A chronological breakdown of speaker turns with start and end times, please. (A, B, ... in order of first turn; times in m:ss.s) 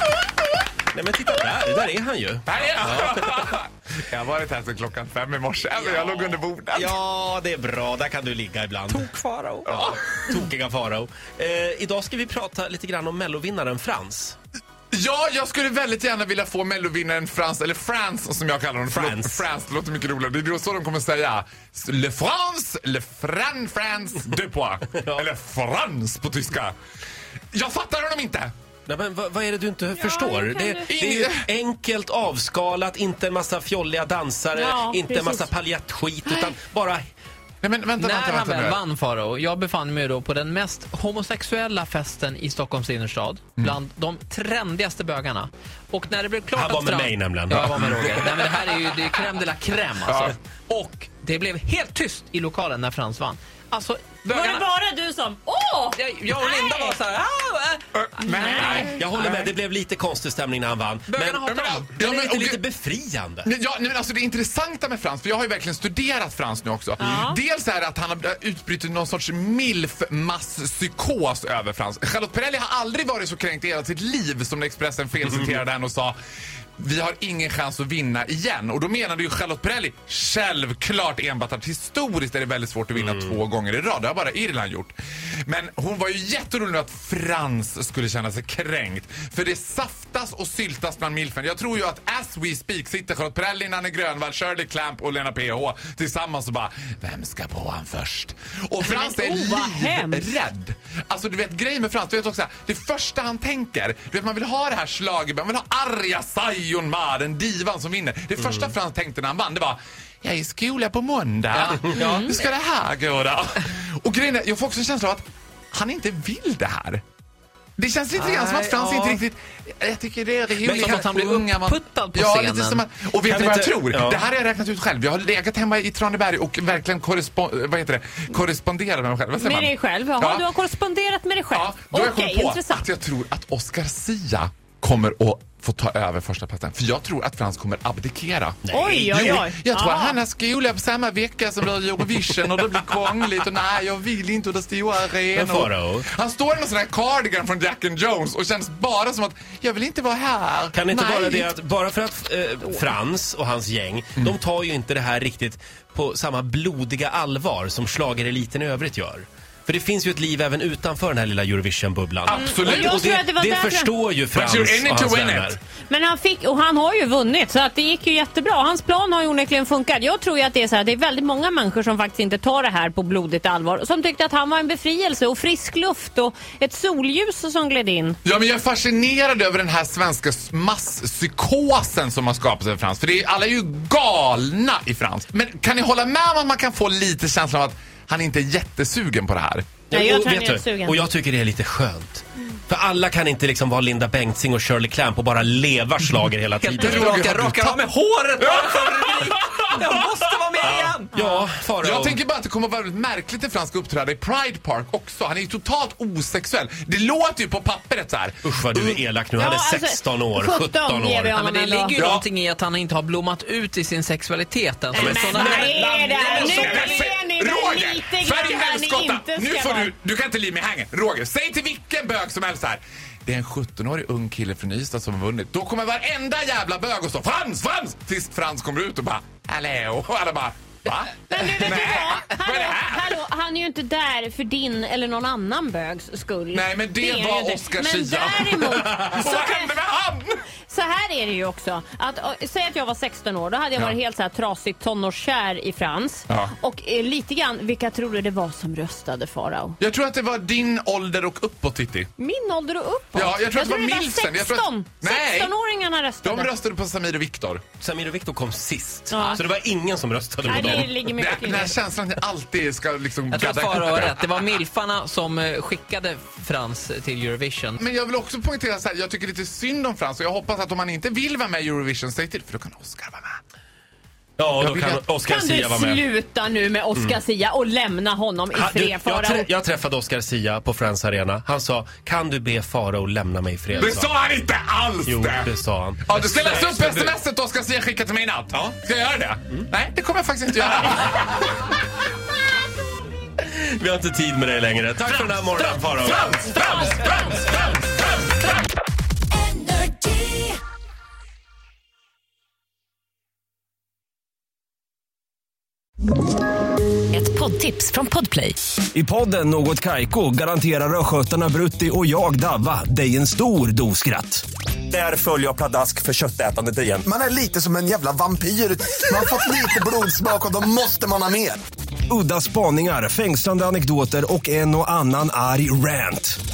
0:00.9-0:03.3 A
0:02.5-0:06.9 B
0:05.8-0:09.1 A
0:08.9-0:09.7 C
0:09.7-0:14.4 A
0:09.7-0:10.0 B
0:14.9-0:26.7 B
0:18.9-0:19.4 A
0:24.9-0:25.2 A
0:27.5-0:28.5 B
0:28.9-0:37.0 A
0:29.9-0:30.8 D
0:30.9-0:31.4 B
0:34.5-0:35.5 D
0:37.6-0:38.8 B
0:38.0-0:54.6 C
0:46.5-0:48.0 A
0:47.5-0:49.2 B
0:50.0-0:50.4 B
0:54.3-0:57.0 D
0:55.9-0:59.5 C
0:57.9-0:59.2 B
0:58.3-0:58.9 D
0:58.9-1:03.5 A
1:01.1-1:02.3 C
1:01.4-1:02.6 B
1:03.4-1:16.2 B
1:07.0-1:07.4 D
1:16.8-1:57.0 B
1:23.0-1:23.4 A
1:38.8-1:40.3 D
1:51.5-1:52.3 C
1:57.8-2:10.5 B
1:58.1-1:59.2 C
2:00.6-2:02.8 C
2:03.2-2:04.2 A
2:09.4-2:12.8 D
2:11.5-2:31.5 B
2:18.6-2:19.2 A
2:18.7-2:20.2 D
2:25.3-2:26.1 A
2:30.7-2:45.6 A
2:42.3-2:43.0 B
2:42.3-2:43.9 D
2:44.3-2:45.6 B
2:45.9-2:58.2 D
2:58.2-3:09.7 B
3:09.9-3:17.4 A
3:09.9-3:11.0 D
3:16.6-3:21.1 C
3:16.7-3:20.9 B
3:20.6-3:22.2 A
3:21.1-3:21.5 D
3:21.8-3:29.0 B
3:28.4-3:31.4 A
3:29.4-3:32.0 D
3:31.3-3:37.1 C
3:32.0-3:32.2 B
3:34.9-3:39.9 D
3:34.9-3:53.1 B
3:51.3-3:59.7 D
3:56.5-4:00.3 B
4:00.7-4:09.8 D
4:09.8-4:12.1 B
4:12.2-4:16.5 D
4:13.1-4:15.5 B
4:16.2-4:17.6 B
4:17.8-4:20.9 A
4:19.1-4:19.4 D
4:20.4-4:21.8 D
4:20.5-4:24.6 B
4:23.3-4:27.8 C
4:27.8-4:33.4 B
4:34.4-4:36.0 A
4:34.6-4:35.1 B
4:35.3-4:39.5 D
4:38.5-4:44.1 A
4:43.8-4:45.5 B
4:45.0-4:47.2 A
4:46.0-4:51.5 B
4:53.4-4:56.4 A
4:55.0-4:58.5 B
4:56.5-4:57.4 D
4:59.5-5:00.4 D
5:07.1-5:08.5 D
5:08.9-5:17.0 E
5:17.0-5:21.6 F
5:22.1-5:26.4 E